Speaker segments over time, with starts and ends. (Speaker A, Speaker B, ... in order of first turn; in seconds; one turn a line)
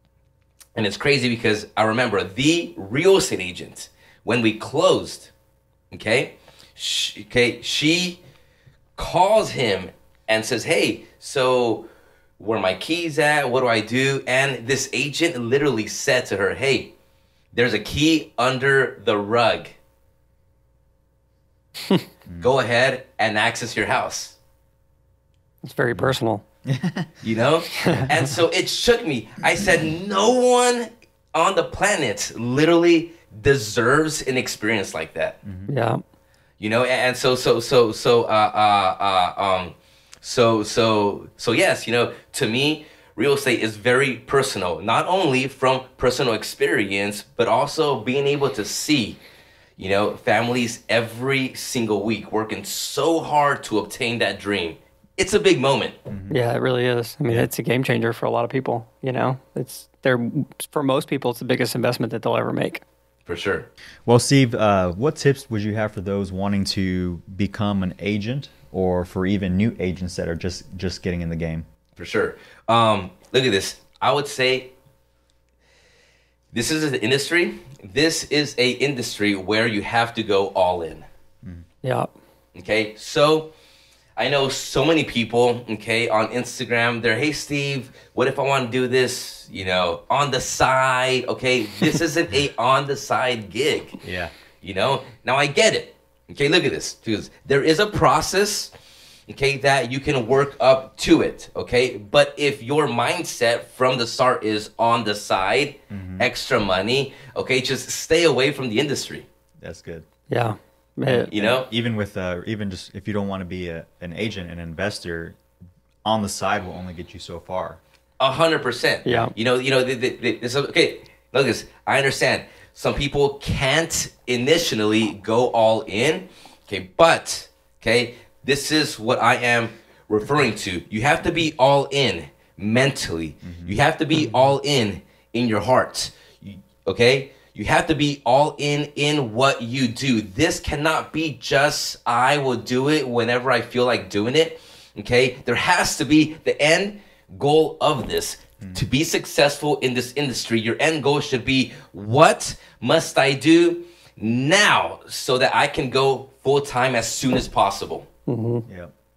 Speaker A: 0.7-5.3
Speaker A: 5.9-8.2
Speaker A: 9.0-11.9
Speaker A: 12.4-16.9
Speaker A: 17.5-19.7
Speaker A: 22.4-24.4
Speaker B: 25.6-26.4
Speaker C: 26.6-27.1
Speaker A: 27.2-35.4
Speaker B: 27.8-28.1
Speaker C: 35.4-35.7
Speaker B: 35.7-36.0
Speaker A: 36.6-49.2
Speaker A: 49.8-56.0
Speaker C: 56.1-56.4
Speaker B: 56.3-62.8
Speaker A: 63.2-63.7
Speaker C: 64.0-71.7
Speaker A: 72.0-74.7
Speaker A: 76.5-81.0
Speaker B: 81.8-82.1
Speaker A: 82.5-83.5
Speaker A: 84.2-94.0
Speaker C: 94.0-94.3
Speaker A: 94.6-98.7
Speaker A: 99.3-109.3
Speaker C: 105.9-106.3
Speaker C: 109.6-110.0
Speaker B: 110.3-111.3
Speaker C: 111.1-115.3
Speaker A: 111.3-111.7
Speaker C: 116.0-117.8
Speaker A: 118.2-158.1
Speaker B: 119.0-119.3
Speaker C: 133.4-133.8
Speaker B: 158.3-158.6
Speaker C: 158.7-158.9